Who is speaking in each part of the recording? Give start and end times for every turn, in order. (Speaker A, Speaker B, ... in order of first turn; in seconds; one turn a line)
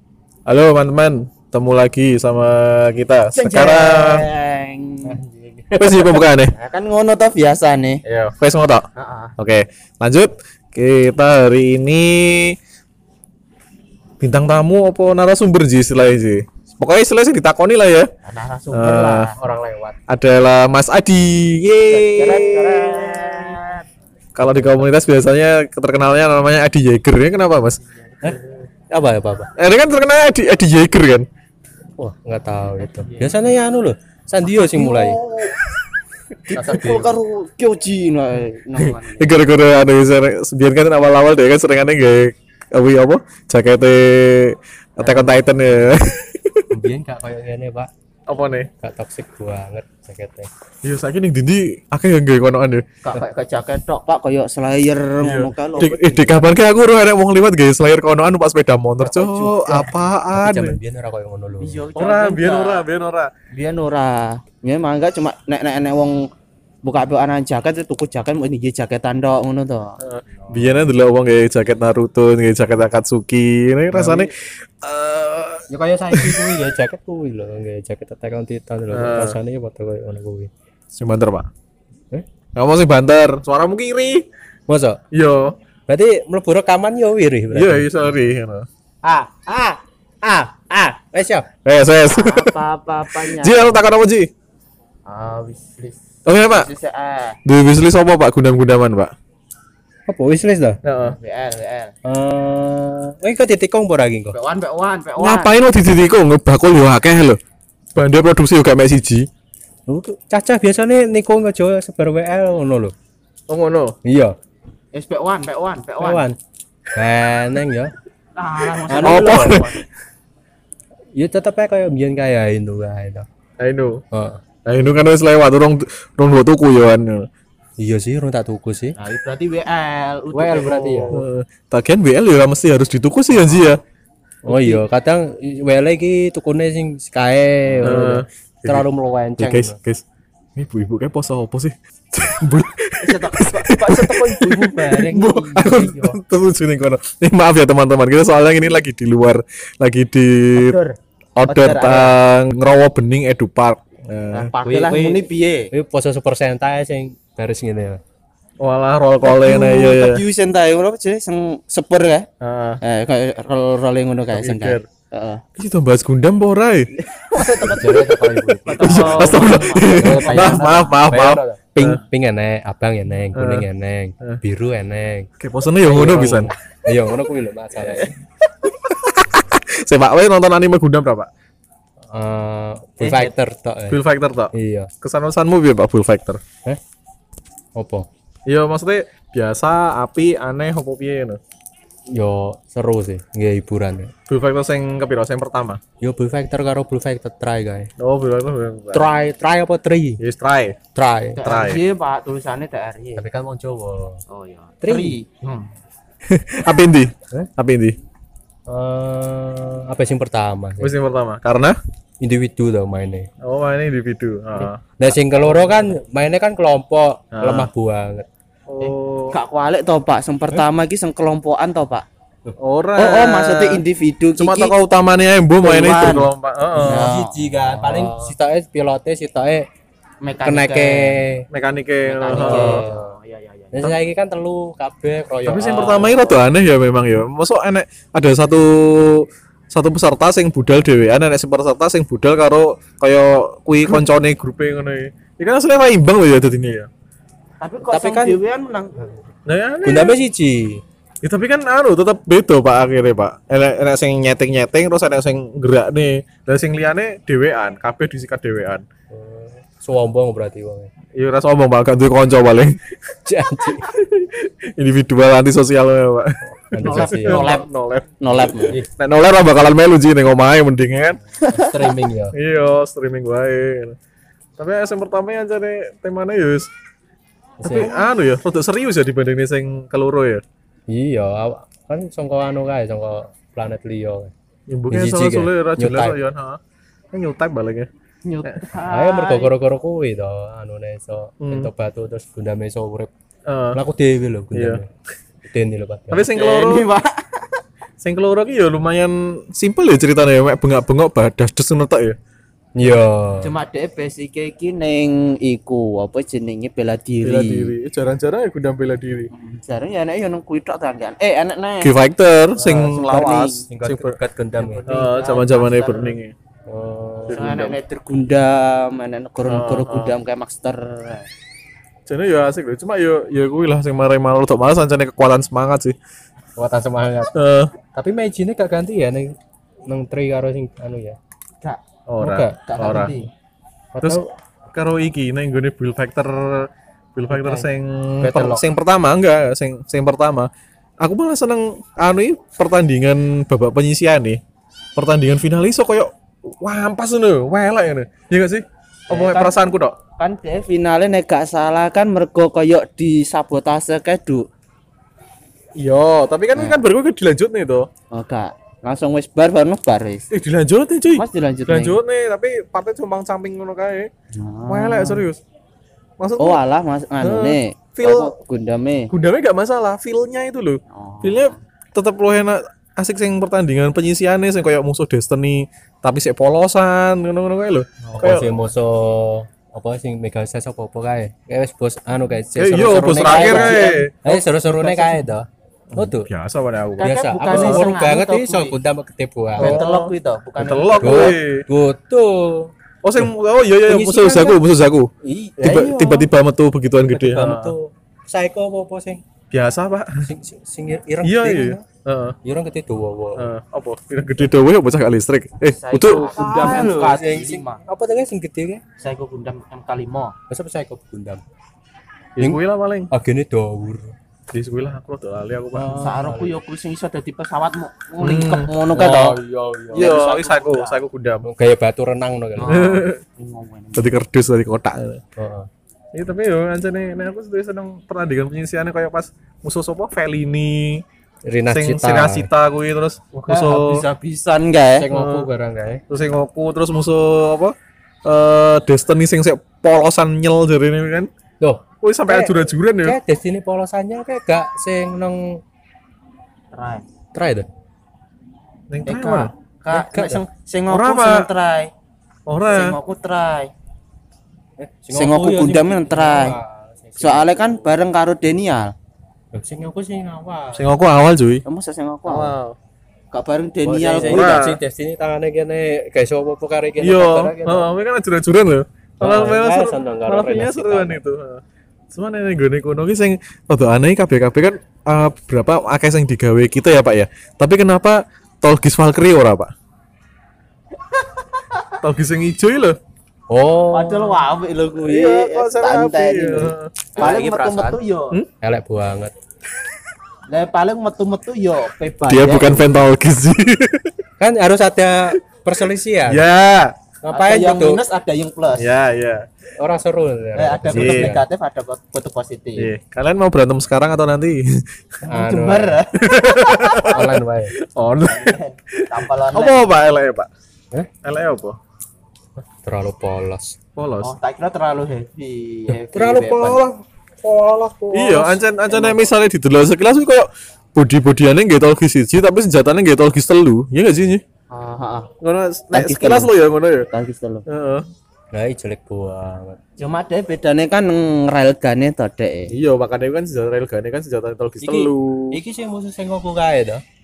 Speaker A: 0.5-4.2
Speaker B: 3.3-5.2
Speaker C: 5.0-6.2
Speaker A: 5.7-6.5
Speaker B: 6.5-8.0
Speaker A: 8.3-8.8
Speaker B: 8.9-9.3
Speaker A: 9.4-12.6
Speaker A: 14.2-18.1
Speaker B: 18.2-19.4
Speaker A: 18.7-19.3
Speaker C: 19.3-20.0
Speaker A: 20.1-23.1
Speaker B: 21.9-23.8
Speaker C: 22.3-23.0
Speaker A: 24.3-27.8
Speaker C: 24.4-24.9
Speaker B: 27.8-28.6
Speaker C: 28.9-29.5
Speaker A: 29.6-31.3
Speaker C: 32.0-35.2
Speaker B: 32.8-33.5
Speaker B: 34.4-35.5
Speaker B: 36.5-39.4
Speaker C: 36.5-37.1
Speaker A: 38.8-46.7
Speaker B: 45.0-45.6
Speaker C: 46.7-47.9
Speaker A: 48.3-48.7
Speaker C: 48.8-50.5
Speaker A: 50.8-52.8
Speaker B: 53.0-56.5
Speaker A: 55.2-60.8
Speaker B: 59.0-59.9
Speaker C: 60.3-61.9
Speaker B: 61.6-62.9
Speaker A: 61.9-63.3
Speaker B: 63.5-66.2
Speaker B: 66.8-70.0
Speaker A: 70.0-76.6
Speaker C: 73.9-74.3
Speaker C: 75.7-80.5
Speaker A: 78.9-79.4
Speaker A: 80.9-81.5
Speaker A: 82.5-84.2
Speaker C: 84.7-85.0
Speaker A: 85.1-85.5
Speaker C: 85.9-87.9
Speaker A: 87.5-88.7
Speaker C: 89.0-91.5
Speaker A: 91.6-92.6
Speaker B: 92.1-93.9
Speaker A: 93.1-94.3
Speaker B: 95.0-97.4
Speaker A: 96.2-96.7
Speaker A: 97.4-99.1
Speaker C: 100.1-100.8
Speaker A: 100.8-101.2
Speaker B: 101.0-101.9
Speaker C: 102.0-104.3
Speaker B: 104.3-105.5
Speaker A: 105.2-107.4
Speaker A: 107.9-109.3
Speaker C: 109.9-112.9
Speaker A: 113.5-114.0
Speaker C: 114.0-114.3
Speaker B: 114.9-116.2
Speaker C: 116.0-116.4
Speaker C: 116.9-117.9
Speaker B: 118.3-119.8
Speaker C: 118.9-119.7
Speaker A: 119.0-119.8
Speaker C: 121.1-123.3
Speaker A: 123.6-124.0
Speaker C: 124.1-124.4
Speaker A: 124.7-127.3
Speaker C: 127.8-128.9
Speaker B: 129.0-131.2
Speaker C: 130.3-131.2
Speaker A: 131.1-133.8
Speaker B: 133.4-133.8
Speaker C: 134.4-139.8
Speaker B: 134.5-134.8
Speaker B: 137.7-138.0
Speaker A: 137.8-138.9
Speaker A: 139.4-140.0
Speaker A: 140.6-150.7
Speaker B: 143.0-146.2
Speaker B: 150.5-152.2
Speaker A: 151.3-154.5
Speaker B: 154.3-155.7
Speaker C: 154.6-158.0
Speaker A: 158.6-160.2
Speaker B: 159.2-162.3
Speaker A: 162.4-162.8
Speaker B: 162.8-165.4
Speaker A: 164.3-164.8
Speaker A: 165.6-166.9
Speaker B: 167.1-171.1
Speaker C: 167.6-175.3
Speaker A: 168.8-172.0
Speaker A: 173.3-173.7
Speaker A: 175.4-176.5
Speaker C: 175.8-178.1
Speaker A: 178.8-181.3
Speaker C: 182.1-184.0
Speaker B: 183.0-183.3
Speaker A: 183.9-186.4
Speaker C: 184.5-184.9
Speaker C: 187.7-188.1
Speaker A: 188.4-191.4
Speaker C: 192.1-194.1
Speaker A: 194.3-195.8
Speaker C: 196.0-197.9
Speaker A: 198.0-199.1
Speaker C: 198.9-200.2
Speaker A: 200.2-200.8
Speaker C: 200.9-201.4
Speaker B: 201.3-203.3
Speaker A: 201.4-201.8
Speaker C: 203.2-204.2
Speaker B: 204.3-205.7
Speaker C: 204.8-205.2
Speaker A: 206.3-208.0
Speaker C: 208.7-210.9
Speaker A: 210.8-211.8
Speaker C: 212.2-213.3
Speaker A: 213.4-214.8
Speaker C: 215.0-218.3
Speaker A: 217.3-217.7
Speaker A: 218.7-219.3
Speaker B: 218.8-222.0
Speaker A: 222.6-223.8
Speaker B: 222.9-224.8
Speaker A: 224.4-227.1
Speaker B: 225.6-228.3
Speaker C: 227.0-229.7
Speaker B: 230.2-231.2
Speaker C: 230.4-231.5
Speaker A: 231.5-232.8
Speaker B: 232.0-233.9
Speaker C: 232.3-233.1
Speaker C: 233.7-236.4
Speaker A: 235.4-246.9
Speaker B: 247.6-249.1
Speaker C: 247.9-248.4
Speaker A: 249.4-250.2
Speaker C: 249.8-250.8
Speaker A: 251.2-258.8
Speaker C: 259.1-260.9
Speaker A: 261.1-262.8
Speaker C: 263.2-263.9
Speaker A: 263.8-271.2
Speaker C: 266.7-267.6
Speaker B: 266.8-267.6
Speaker B: 268.2-268.8
Speaker B: 271.4-271.9
Speaker C: 271.5-272.3
Speaker A: 272.3-273.9
Speaker A: 274.6-276.7
Speaker C: 277.6-278.0
Speaker A: 277.6-280.4
Speaker C: 280.9-284.3
Speaker A: 284.7-286.6
Speaker C: 284.9-286.2
Speaker A: 287.1-287.9
Speaker B: 288.2-289.5
Speaker C: 288.8-293.1
Speaker A: 291.4-291.7
Speaker A: 293.5-293.8
Speaker C: 293.7-294.9
Speaker A: 294.5-294.8
Speaker C: 295.4-296.3
Speaker A: 296.1-296.9
Speaker B: 296.3-297.6
Speaker A: 298.0-302.2
Speaker C: 302.8-303.5
Speaker B: 303.4-307.7
Speaker A: 307.2-309.3
Speaker B: 309.3-311.9
Speaker A: 311.8-314.2
Speaker B: 312.6-313.6
Speaker C: 313.7-314.8
Speaker B: 314.5-316.1
Speaker A: 314.9-316.3
Speaker C: 316.7-317.5
Speaker A: 317.3-317.8
Speaker B: 317.3-321.2
Speaker A: 319.4-320.1
Speaker A: 322.1-326.0
Speaker C: 326.6-327.3
Speaker A: 327.3-327.7
Speaker C: 327.9-329.3
Speaker C: 329.9-331.2
Speaker A: 332.1-333.1
Speaker C: 332.2-332.5
Speaker B: 332.6-333.3
Speaker C: 333.9-334.3
Speaker A: 334.7-344.4
Speaker B: 337.3-337.7
Speaker C: 338.2-338.6
Speaker A: 344.9-350.0
Speaker B: 349.1-349.6
Speaker B: 350.2-354.4
Speaker A: 355.8-357.9
Speaker B: 356.5-356.8
Speaker B: 358.1-360.3
Speaker A: 360.3-364.1
Speaker B: 361.1-362.0
Speaker B: 364.3-365.3
Speaker A: 364.7-365.4
Speaker A: 366.2-366.6
Speaker B: 366.4-369.1
Speaker A: 367.2-368.3
Speaker A: 369.1-378.5
Speaker B: 370.9-371.6
Speaker C: 378.1-386.3
Speaker A: 382.6-384.2
Speaker B: 383.2-384.1
Speaker B: 384.6-385.2
Speaker A: 385.9-387.9
Speaker B: 387.0-388.8
Speaker C: 387.0-389.8
Speaker B: 389.6-391.4
Speaker A: 389.6-391.7
Speaker C: 391.0-393.3
Speaker A: 393.0-397.7
Speaker C: 393.9-394.6
Speaker B: 395.2-396.3
Speaker C: 397.1-399.2
Speaker A: 399.5-400.1
Speaker C: 400.2-401.8
Speaker A: 401.2-402.4
Speaker C: 402.4-403.5
Speaker A: 403.4-406.8
Speaker B: 405.6-407.8
Speaker C: 406.1-408.8
Speaker B: 409.0-410.3
Speaker C: 410.5-411.4
Speaker A: 412.4-413.1
Speaker C: 412.4-414.1
Speaker A: 414.5-416.0
Speaker C: 415.7-416.6
Speaker B: 415.9-419.4
Speaker A: 418.2-418.7
Speaker C: 418.9-420.1
Speaker B: 419.9-421.0
Speaker A: 419.9-421.5
Speaker C: 421.4-422.8
Speaker B: 422.6-424.2
Speaker A: 422.6-423.2
Speaker A: 423.9-425.2
Speaker C: 425.4-425.7
Speaker A: 426.1-431.0
Speaker C: 431.4-432.5
Speaker A: 431.7-434.1
Speaker B: 433.4-435.1
Speaker C: 435.0-436.0
Speaker A: 435.1-435.5
Speaker A: 436.1-437.7
Speaker A: 438.2-441.3
Speaker C: 441.6-445.6
Speaker A: 442.0-443.2
Speaker B: 446.7-447.0
Speaker C: 447.3-447.7
Speaker A: 448.9-449.5
Speaker B: 449.1-451.9
Speaker C: 449.9-450.4
Speaker A: 450.9-451.5
Speaker A: 452.5-453.0
Speaker B: 452.7-453.7
Speaker C: 454.8-457.9
Speaker B: 455.1-456.6
Speaker B: 457.2-458.9
Speaker C: 459.5-460.8
Speaker A: 460.7-461.6
Speaker B: 461.6-462.6
Speaker A: 462.2-462.8
Speaker B: 463.3-464.7
Speaker C: 463.8-467.9
Speaker A: 464.2-464.8
Speaker A: 467.0-471.6
Speaker C: 469.2-471.2
Speaker A: 472.1-479.7
Speaker A: 482.0-483.0
Speaker C: 483.5-484.4
Speaker B: 483.9-488.4
Speaker A: 485.0-487.3
Speaker C: 487.1-488.0
Speaker C: 488.6-489.3
Speaker B: 490.5-493.0
Speaker A: 492.3-494.1
Speaker C: 494.4-496.4
Speaker A: 496.3-496.9
Speaker C: 497.2-498.0
Speaker B: 497.3-498.9
Speaker A: 498.8-499.5
Speaker C: 499.8-501.4
Speaker B: 500.5-502.9
Speaker A: 500.9-501.3
Speaker A: 502.8-504.8
Speaker B: 505.2-507.2
Speaker C: 505.3-506.0
Speaker A: 506.2-510.5
Speaker C: 507.0-507.7
Speaker B: 508.2-509.9
Speaker A: 511.2-511.8
Speaker C: 512.8-513.8
Speaker A: 514.0-514.3
Speaker B: 514.2-516.8
Speaker C: 515.9-518.6
Speaker A: 518.1-524.4
Speaker B: 518.9-519.3
Speaker B: 524.7-525.3
Speaker A: 525.4-527.1
Speaker B: 525.9-526.5
Speaker B: 527.1-527.6
Speaker A: 527.7-528.0
Speaker C: 528.5-529.8
Speaker B: 530.0-532.7
Speaker A: 532.7-535.6
Speaker C: 534.8-537.0